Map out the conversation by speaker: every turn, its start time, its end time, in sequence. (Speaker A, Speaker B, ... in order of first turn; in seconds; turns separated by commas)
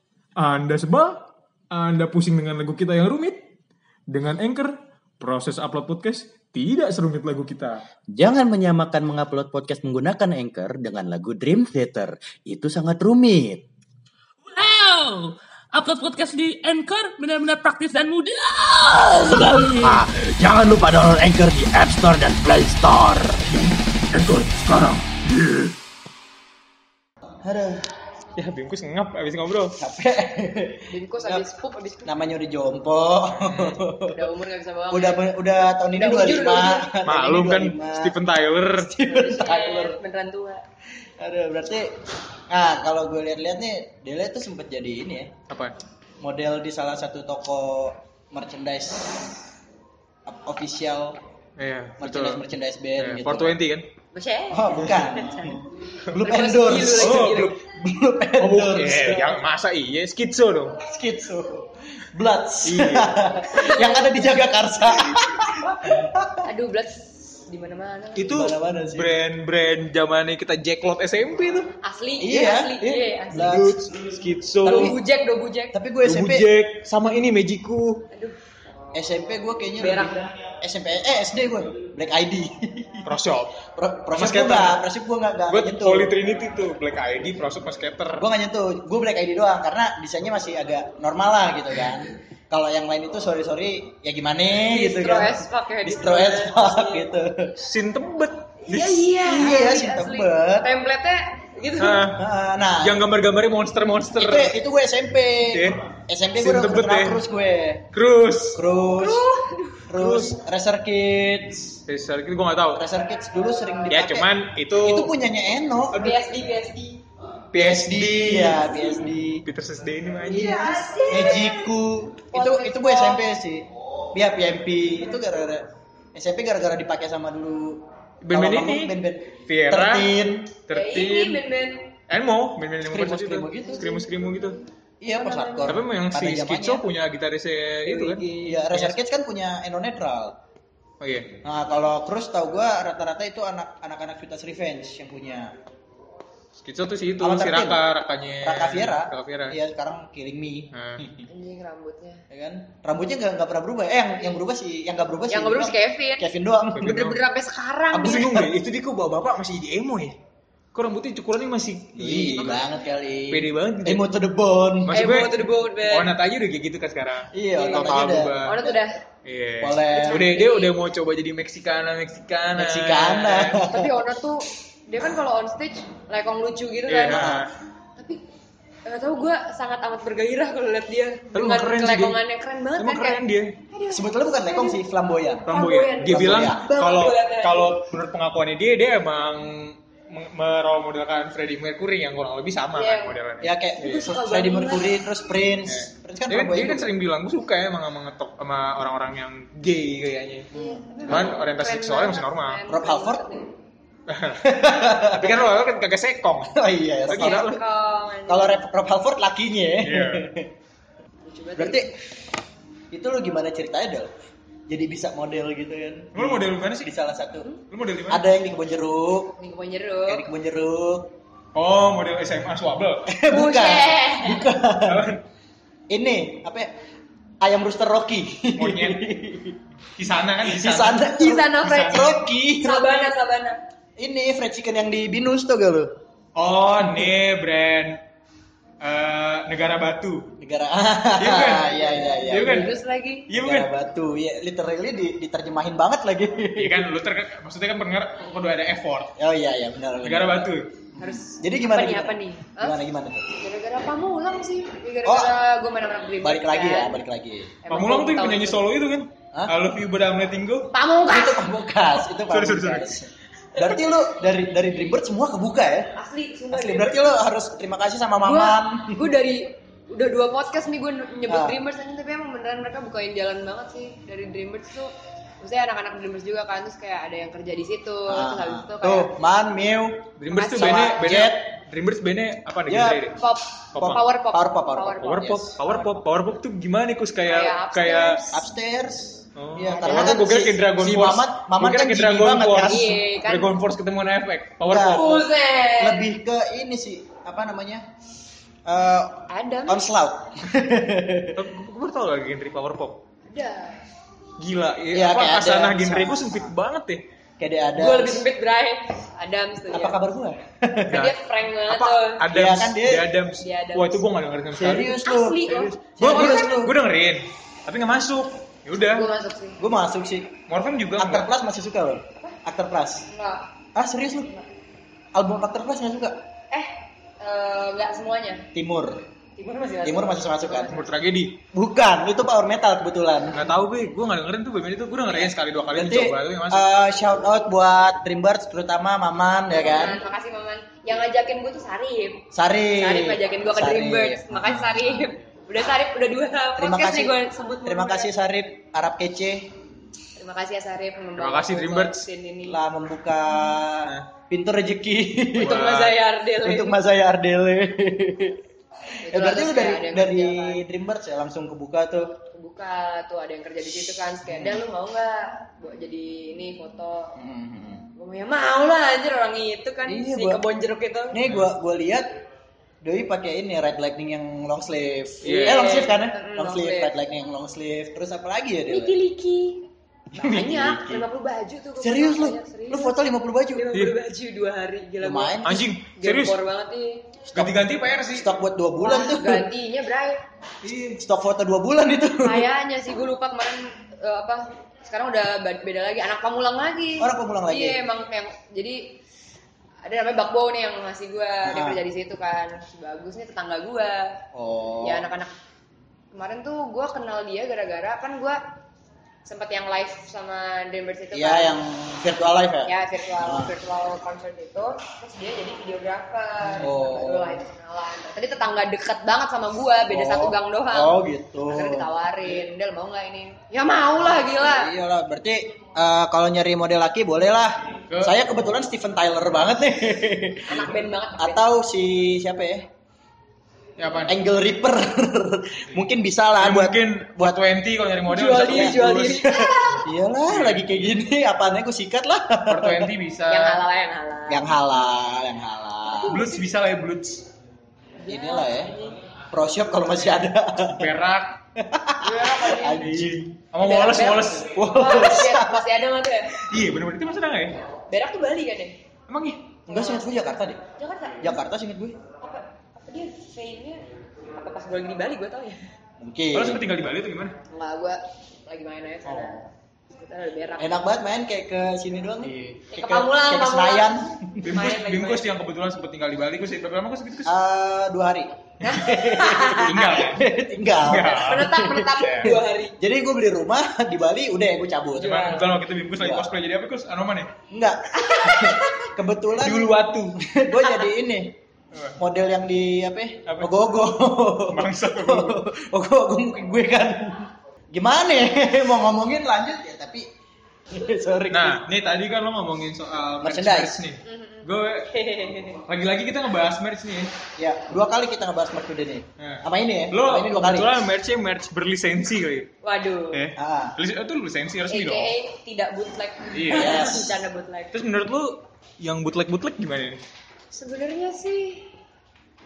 Speaker A: 0.4-3.4, Speaker A: 4.1-7.8, Speaker B: 8.1-13.6, Speaker C: 14.4-20.1, Speaker B: 19.8-23.5, Speaker C: 24.2-24.7, Speaker B: 24.2-25.0, Speaker B: 27.4-27.9, Speaker A: 28.4-29.8, Speaker B: 29.8-31.4, Speaker D: 30.9-32.1, Speaker B: 32.0-34.3, Speaker A: 33.3-33.8, Speaker D: 34.0-35.2, Speaker B: 34.9-38.1, Speaker D: 35.9-36.9, Speaker A: 37.0-38.9, Speaker B: 38.8-40.0, Speaker D: 39.0-40.6, Speaker B: 41.2-42.0, Speaker B: 42.5-45.3, Speaker A: 45.5-45.7, Speaker B: 46.2-49.4, Speaker B: 50.2-51.2, Speaker A: 51.6-52.4, Speaker B: 52.0-53.6, Speaker A: 53.0-53.9, Speaker D: 54.1-57.5, Speaker B: 54.5-59.4, Speaker A: 56.8-57.5, Speaker A: 58.4-60.8, Speaker B: 60.8-66.4, Speaker A: 62.6-63.1, Speaker D: 63.4-64.3, Speaker D: 66.4-68.3, Speaker A: 68.2-71.7, Speaker B: 68.3-69.2, Speaker D: 71.8-73.5, Speaker B: 72.2-73.9, Speaker A: 73.3-75.0, Speaker B: 74.6-75.0, Speaker D: 74.6-75.7, Speaker B: 75.7-76.5, Speaker A: 76.0-78.0, Speaker D: 78.1-78.4, Speaker B: 78.9-83.1, Speaker D: 79.8-80.3, Speaker A: 83.0-83.6, Speaker B: 83.7-86.1, Speaker A: 84.1-84.8, Speaker A: 85.5-88.3, Speaker B: 88.2-97.5, Speaker D: 94.7-97.1, Speaker A: 97.6-98.9, Speaker D: 98.6-102.1, Speaker B: 99.0-100.7, Speaker A: 101.8-102.2, Speaker B: 102.1-103.1, Speaker A: 102.8-104.5, Speaker B: 104.2-107.8, Speaker A: 105.5-105.8, Speaker A: 106.4-107.2, Speaker A: 107.9-108.6, Speaker B: 108.5-109.2, Speaker D: 108.9-109.9, Speaker B: 109.9-111.8, Speaker A: 109.9-110.4, Speaker A: 111.9-112.8, Speaker B: 112.7-116.0, Speaker A: 113.9-115.1, Speaker D: 115.9-117.0, Speaker A: 115.9-116.2, Speaker A: 117.5-118.7, Speaker B: 117.5-119.4, Speaker A: 119.5-120.7, Speaker D: 120.3-121.7, Speaker B: 120.3-130.6, Speaker D: 122.3-123.3, Speaker A: 128.2-128.9, Speaker A: 129.5-130.1, Speaker A: 130.7-131.4, Speaker D: 130.7-131.9, Speaker A: 132.1-134.6, Speaker B: 132.8-133.9, Speaker D: 133.6-134.0, Speaker B: 135.0-136.8, Speaker D: 135.1-135.8, Speaker A: 135.7-139.0, Speaker D: 137.8-138.6, Speaker B: 138.4-140.4, Speaker A: 141.0-141.4, Speaker B: 141.4-145.5, Speaker A: 146.6-149.6, Speaker B: 147.2-147.8, Speaker B: 148.4-151.2, Speaker A: 150.7-151.2, Speaker D: 151.3-152.2, Speaker B: 152.3-157.0, Speaker D: 155.3-156.2, Speaker A: 156.8-157.2, Speaker D: 156.8-158.3, Speaker A: 157.9-160.2, Speaker B: 158.0-158.5, Speaker A: 160.7-162.6, Speaker B: 161.9-165.0, Speaker D: 162.4-162.8, Speaker A: 163.3-164.1, Speaker A: 164.8-168.7, Speaker D: 164.9-166.1, Speaker B: 167.3-168.7, Speaker D: 167.6-169.0, Speaker A: 169.2-173.6, Speaker B: 169.6-170.3, Speaker D: 169.9-170.7, Speaker B: 172.5-174.0, Speaker D: 173.5-177.3, Speaker A: 176.9-177.5, Speaker B: 177.1-177.5, Speaker D: 178.8-183.2, Speaker A: 181.3-182.2, Speaker A: 182.8-183.6, Speaker D: 183.7-184.8, Speaker B: 183.9-185.5, Speaker D: 185.5-187.8, Speaker A: 185.5-194.1, Speaker B: 186.0-186.7, Speaker D: 192.7-193.2, Speaker B: 193.4-196.9, Speaker D: 193.8-195.0, Speaker A: 195.7-200.5, Speaker D: 200.5-203.5, Speaker B: 200.5-200.8, Speaker A: 201.1-202.6, Speaker B: 202.7-203.2, Speaker A: 204.1-204.4, Speaker B: 204.4-205.4, Speaker A: 205.0-206.5, Speaker B: 206.5-207.6, Speaker A: 207.1-207.6, Speaker D: 207.1-208.6, Speaker B: 208.3-210.5, Speaker A: 209.8-210.3, Speaker D: 211.2-211.9, Speaker B: 211.6-211.9, Speaker B: 212.9-214.1, Speaker B: 214.7-217.5, Speaker A: 216.1-216.9, Speaker A: 217.7-218.2, Speaker B: 218.1-219.3, Speaker D: 219.4-220.2, Speaker B: 220.1-221.1, Speaker A: 221.5-223.1, Speaker B: 223.1-225.1, Speaker D: 223.3-224.5, Speaker A: 224.8-225.2, Speaker B: 225.9-226.7, Speaker B: 227.4-229.6, Speaker A: 228.6-229.0, Speaker A: 229.9-231.1, Speaker B: 230.4-233.1, Speaker D: 231.2-233.6, Speaker A: 231.6-232.1, Speaker B: 234.0-236.0, Speaker A: 236.3-238.0, Speaker A: 238.8-240.3, Speaker B: 240.4-242.7, Speaker A: 241.2-242.8, Speaker D: 242.4-243.2, Speaker A: 243.3-243.7, Speaker B: 243.3-246.9, Speaker A: 246.6-249.1, Speaker B: 249.2-250.5, Speaker A: 250.0-250.7, Speaker D: 251.0-252.7, Speaker B: 251.3-253.4, Speaker D: 253.4-257.0, Speaker B: 255.0-255.3, Speaker B: 256.2-257.6, Speaker D: 257.6-258.6, Speaker A: 257.7-260.7, Speaker D: 260.7-261.4, Speaker B: 261.1-265.9, Speaker A: 262.3-262.9, Speaker D: 265.9-267.1, Speaker B: 266.5-269.0, Speaker D: 268.2-279.1, Speaker B: 271.3-271.6, Speaker B: 278.1-281.4, Speaker A: 280.2-283.2, Speaker D: 280.3-281.1, Speaker B: 282.7-283.0, Speaker D: 283.2-285.9, Speaker A: 283.7-284.1, Speaker B: 284.3-285.4, Speaker A: 285.0-288.2, Speaker D: 287.3-288.4, Speaker B: 288.3-292.9, Speaker A: 289.4-295.1, Speaker D: 289.7-290.3, Speaker D: 292.6-293.6, Speaker B: 294.6-297.8, Speaker D: 294.9-296.1, Speaker B: 298.6-301.4, Speaker D: 299.3-299.9, Speaker A: 301.3-303.0, Speaker D: 303.2-303.8, Speaker A: 304.4-307.0, Speaker B: 304.9-306.5, Speaker B: 307.4-308.3, Speaker D: 307.8-309.9, Speaker B: 309.7-311.0, Speaker A: 310.9-311.1, Speaker D: 310.9-312.2, Speaker A: 311.7-315.0, Speaker B: 312.3-313.1, Speaker D: 313.4-314.0, Speaker B: 314.6-316.8, Speaker D: 314.9-316.6, Speaker A: 315.8-319.1, Speaker D: 318.8-319.6, Speaker B: 319.6-320.4, Speaker A: 320.5-321.3, Speaker B: 321.0-323.1, Speaker D: 323.1-323.5, Speaker B: 323.7-324.3, Speaker B: 325.1-326.2, Speaker D: 326.5-328.5, Speaker B: 328.5-329.0, Speaker D: 329.4-330.7, Speaker B: 329.8-330.7, Speaker A: 330.7-331.4, Speaker B: 331.5-333.4, Speaker A: 333.3-336.7, Speaker B: 335.1-340.0, Speaker D: 339.5-348.1, Speaker B: 342.3-344.8, Speaker A: 344.5-345.1, Speaker B: 346.6-349.5, Speaker D: 350.1-352.6, Speaker A: 351.2-352.0, Speaker B: 352.4-355.6, Speaker D: 355.4-356.8, Speaker A: 355.4-356.0, Speaker B: 356.4-362.1, Speaker D: 359.0-360.6, Speaker D: 362.3-367.2, Speaker B: 364.2-364.6, Speaker B: 367.2-367.9, Speaker D: 367.9-371.2, Speaker B: 369.9-370.4, Speaker B: 371.1-372.1, Speaker A: 371.2-371.5, Speaker B: 372.8-379.0, Speaker A: 375.2-375.7, Speaker D: 375.2-376.9, Speaker D: 378.7-382.9, Speaker B: 380.1-381.0, Speaker B: 381.8-383.7, Speaker D: 383.5-385.4, Speaker B: 385.0-385.6, Speaker A: 385.4-386.4, Speaker D: 385.9-387.0, Speaker B: 387.3-387.6, Speaker A: 387.3-388.3, Speaker B: 388.1-389.5, Speaker D: 388.8-390.2, Speaker A: 390.6-391.0, Speaker B: 391.0-392.5, Speaker D: 392.2-398.8, Speaker B: 397.0-397.8, Speaker D: 399.8-404.2, Speaker B: 401.4-401.8, Speaker B: 404.3-405.1, Speaker D: 404.8-405.3, Speaker D: 406.1-408.4, Speaker D: 409.2-411.6, Speaker B: 411.1-413.5, Speaker D: 412.6-420.9, Speaker B: 416.6-417.4, Speaker B: 419.9-421.9, Speaker D: 421.5-424.7, Speaker B: 424.3-432.7, Speaker A: 427.9-428.2, Speaker D: 430.5-431.4, Speaker A: 433.8-434.1, Speaker B: 434.1-437.4, Speaker A: 436.4-439.3, Speaker D: 438.1-439.8, Speaker B: 438.5-442.9, Speaker A: 440.3-441.0, Speaker A: 442.5-443.6, Speaker D: 443.3-444.5, Speaker B: 444.3-446.2, Speaker D: 445.9-446.4, Speaker A: 446.1-447.2, Speaker D: 448.0-449.0, Speaker B: 448.1-448.7, Speaker B: 449.3-450.9, Speaker A: 450.7-451.4, Speaker B: 451.5-453.2, Speaker D: 452.0-452.9, Speaker A: 452.8-455.0, Speaker D: 453.6-456.3, Speaker B: 454.5-455.7, Speaker A: 456.4-457.6, Speaker D: 457.9-458.8, Speaker A: 459.1-459.6, Speaker D: 459.7-460.0, Speaker B: 459.7-460.6, Speaker D: 460.7-461.3, Speaker B: 461.2-462.0, Speaker D: 462.2-463.8, Speaker D: 464.3-465.6, Speaker B: 466.0-466.6, Speaker A: 466.3-467.4, Speaker D: 467.5-470.8, Speaker A: 469.1-469.4, Speaker B: 470.6-474.5, Speaker A: 472.2-472.6, Speaker D: 472.7-475.3, Speaker A: 474.4-477.3, Speaker B: 477.2-485.4, Speaker D: 478.6-480.0, Speaker A: 479.4-480.2, Speaker A: 480.8-482.3, Speaker D: 480.9-482.8, Speaker D: 485.0-485.5, Speaker A: 485.0-487.3, Speaker B: 485.9-486.3, Speaker B: 487.5-491.4, Speaker D: 488.0-488.9, Speaker A: 489.4-490.2, Speaker D: 490.6-490.8, Speaker A: 491.7-492.0, Speaker B: 492.0-500.1, Speaker A: 493.2-493.5, Speaker A: 494.5-495.4, Speaker B: 500.7-501.6, Speaker A: 501.3-504.9, Speaker B: 503.2-503.8, Speaker D: 504.0-505.6, Speaker A: 505.6-507.1, Speaker B: 507.4-510.8, Speaker A: 509.2-512.5, Speaker D: 512.6-513.2, Speaker A: 513.1-515.1, Speaker B: 513.4-513.8, Speaker D: 514.7-517.7, Speaker A: 516.3-516.9, Speaker B: 516.5-517.2, Speaker A: 517.7-520.0, Speaker D: 520.5-521.7